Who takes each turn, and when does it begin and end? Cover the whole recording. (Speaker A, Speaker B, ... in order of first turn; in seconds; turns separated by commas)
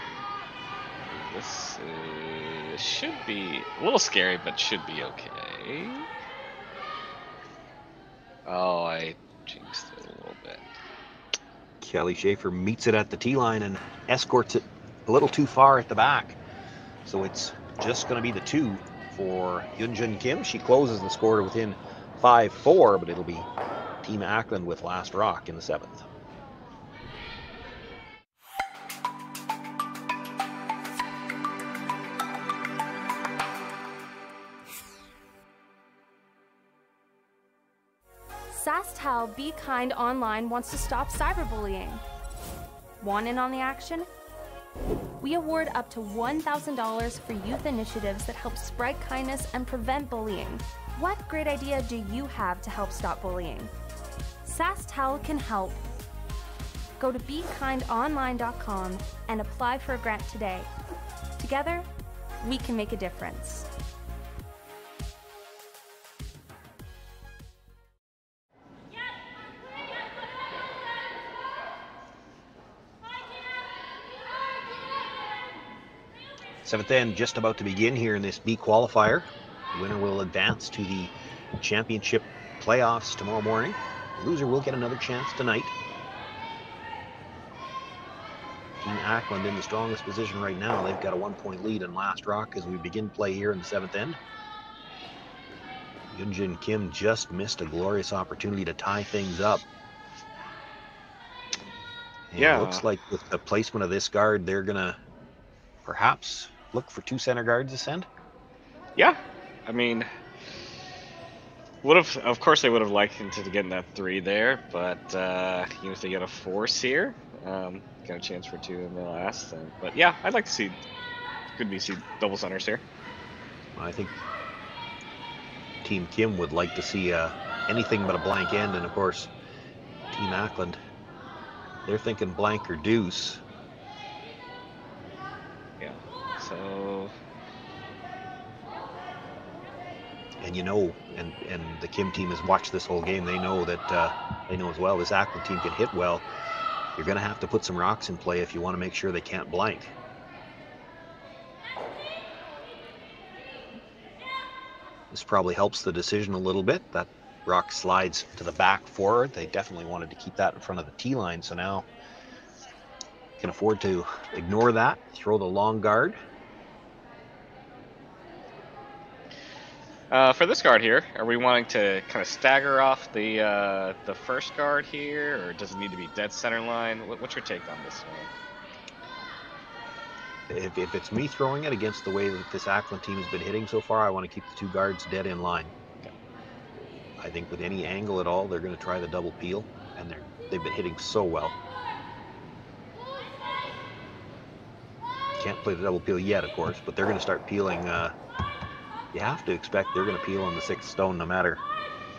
Speaker A: 1.0-6.1, Speaker A: 8.4-10.6, Speaker B: 11.8-16.4, Speaker B: 17.1-23.5, Speaker B: 24.0-26.1, Speaker C: 38.5-42.0, Speaker C: 43.0-44.1, Speaker C: 45.2-53.7, Speaker C: 54.4-55.8, Speaker C: 57.0-60.7, Speaker C: 61.4-61.9, Speaker C: 62.4-63.7, Speaker B: 76.6-85.7, Speaker B: 88.8-94.2, Speaker B: 96.1-99.7, Speaker B: 102.3-105.0, Speaker A: 102.4-102.9, Speaker B: 105.8-108.1, Speaker A: 109.0-110.1, Speaker A: 111.8-120.8, Speaker A: 121.6-122.8, Speaker B: 123.7-124.2, Speaker B: 125.8-129.3, Speaker B: 130.1-130.8, Speaker B: 131.8-133.4, Speaker A: 135.8-137.1, Speaker B: 140.4-146.3, Speaker B: 147.0-149.9, Speaker B: 155.1-161.9, Speaker B: 163.4-166.2, Speaker A: 170.1-178.3, Speaker B: 180.5-185.7, Speaker B: 187.2-191.6, Speaker B: 195.4-198.1, Speaker B: 199.1-201.6